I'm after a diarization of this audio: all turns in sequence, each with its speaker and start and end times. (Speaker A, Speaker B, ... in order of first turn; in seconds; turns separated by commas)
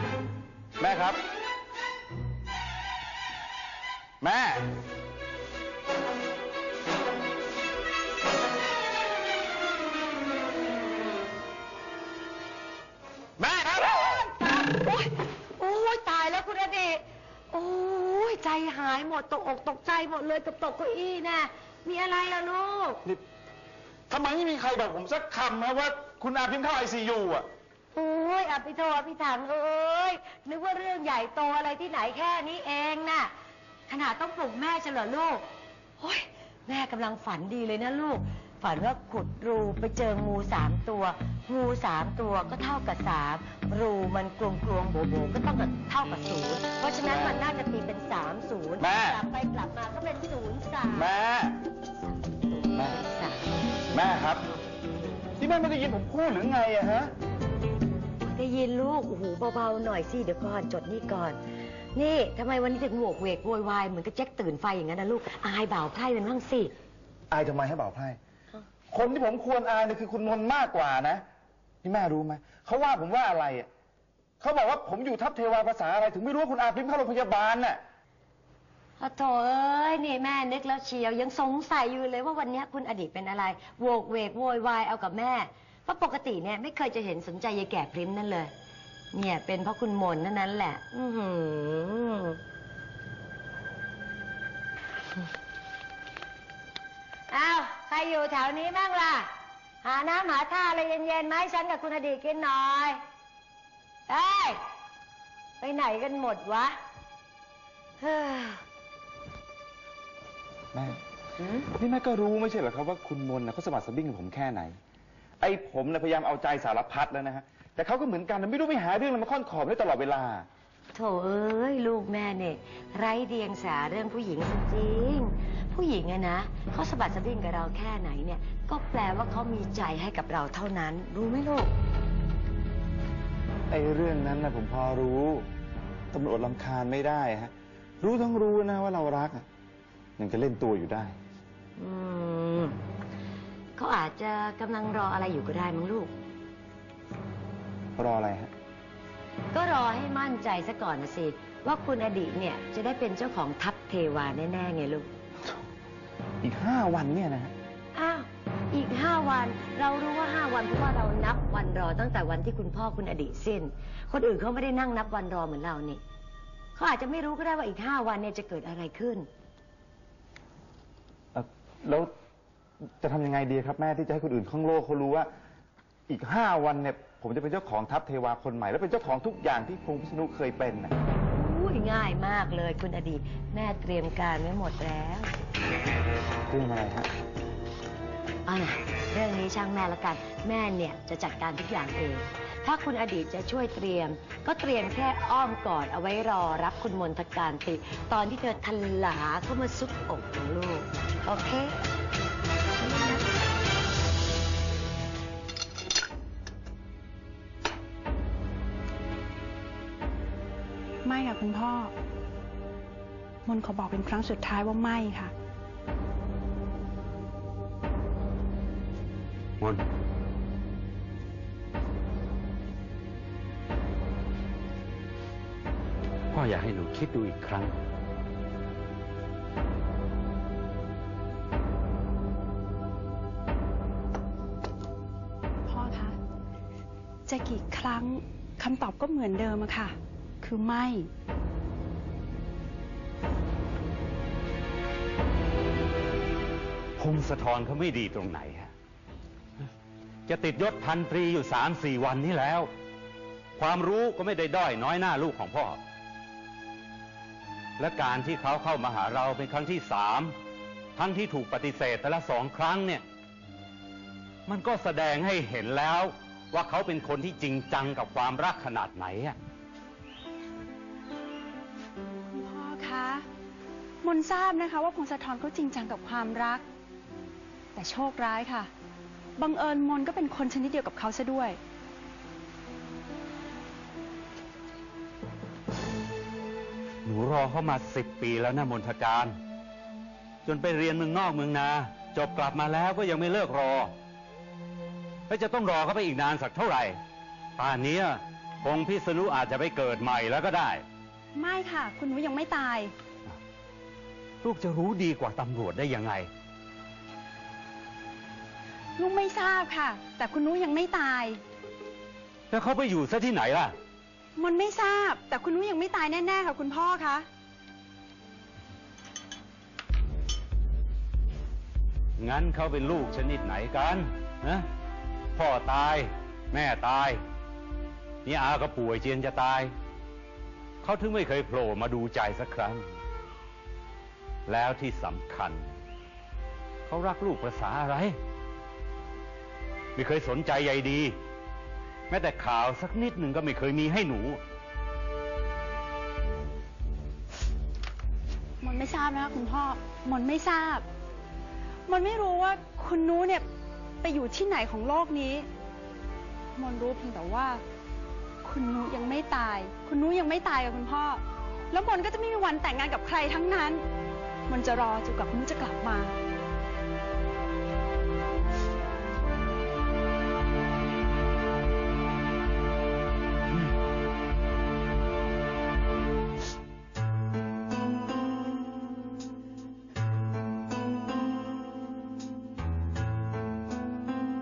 Speaker A: 0.8-1.2, Speaker A: 4.2-4.7, Speaker A: 13.4-14.1, Speaker B: 14.4-23.0, Speaker A: 24.1-27.5, Speaker B: 28.0-33.3, Speaker B: 33.9-35.4, Speaker B: 36.0-51.0, Speaker A: 47.0-47.4, Speaker A: 48.8-49.2, Speaker A: 50.9-51.6, Speaker B: 52.5-53.4, Speaker A: 53.9-54.5, Speaker A: 55.4-57.1, Speaker B: 58.2-61.4, Speaker B: 62.0-66.7, Speaker A: 67.3-68.2, Speaker A: 68.9-71.2, Speaker A: 71.8-73.7, Speaker A: 74.4-77.8, Speaker B: 79.0-88.5, Speaker B: 89.2-92.3, Speaker B: 97.3-99.2, Speaker B: 99.8-103.0, Speaker B: 104.1-104.6, Speaker B: 105.6-106.7, Speaker B: 108.0-108.6, Speaker A: 110.7-111.0, Speaker A: 111.7-114.8, Speaker A: 115.4-120.5, Speaker B: 121.0-131.7, Speaker A: 133.7-135.5, Speaker A: 136.1-139.5, Speaker A: 140.2-141.2, Speaker B: 141.8-142.7, Speaker B: 143.8-146.1, Speaker A: 148.0-148.5, Speaker B: 149.5-155.1, Speaker A: 156.4-157.5, Speaker B: 158.0-166.0, Speaker B: 166.8-169.2, Speaker A: 171.3-172.1, Speaker A: 173.0-175.3, Speaker A: 176.1-180.9, Speaker B: 181.4-185.3, Speaker A: 186.5-187.1, Speaker B: 188.5-201.7, Speaker B: 202.8-203.2, Speaker C: 211.1-211.9, Speaker C: 213.5-215.3, Speaker D: 226.3-227.8, Speaker C: 235.7-236.2, Speaker C: 237.3-241.1, Speaker D: 247.0-248.7, Speaker D: 250.3-252.7, Speaker D: 253.6-255.8, Speaker D: 257.8-260.3, Speaker D: 261.0-263.0, Speaker D: 264.5-269.4, Speaker C: 272.3-273.2, Speaker C: 274.0-276.6, Speaker C: 277.8-278.7, Speaker C: 279.4-281.6, Speaker D: 287.1-289.4, Speaker D: 290.5-293.9, Speaker D: 295.3-297.0, Speaker D: 297.6-300.8, Speaker C: 301.4-302.9, Speaker D: 304.4-306.3, Speaker C: 309.0-311.4, Speaker D: 312.5-313.7, Speaker C: 314.4-317.2, Speaker D: 322.2-324.6, Speaker D: 325.4-327.2, Speaker D: 328.2-329.7, Speaker D: 330.8-332.9, Speaker D: 334.5-335.7, Speaker D: 336.9-338.1, Speaker D: 340.0-341.1, Speaker D: 342.1-344.4, Speaker C: 348.6-350.9, Speaker C: 351.9-353.4, Speaker C: 354.0-355.5, Speaker C: 356.6-357.6, Speaker C: 358.4-363.8, Speaker C: 364.5-366.1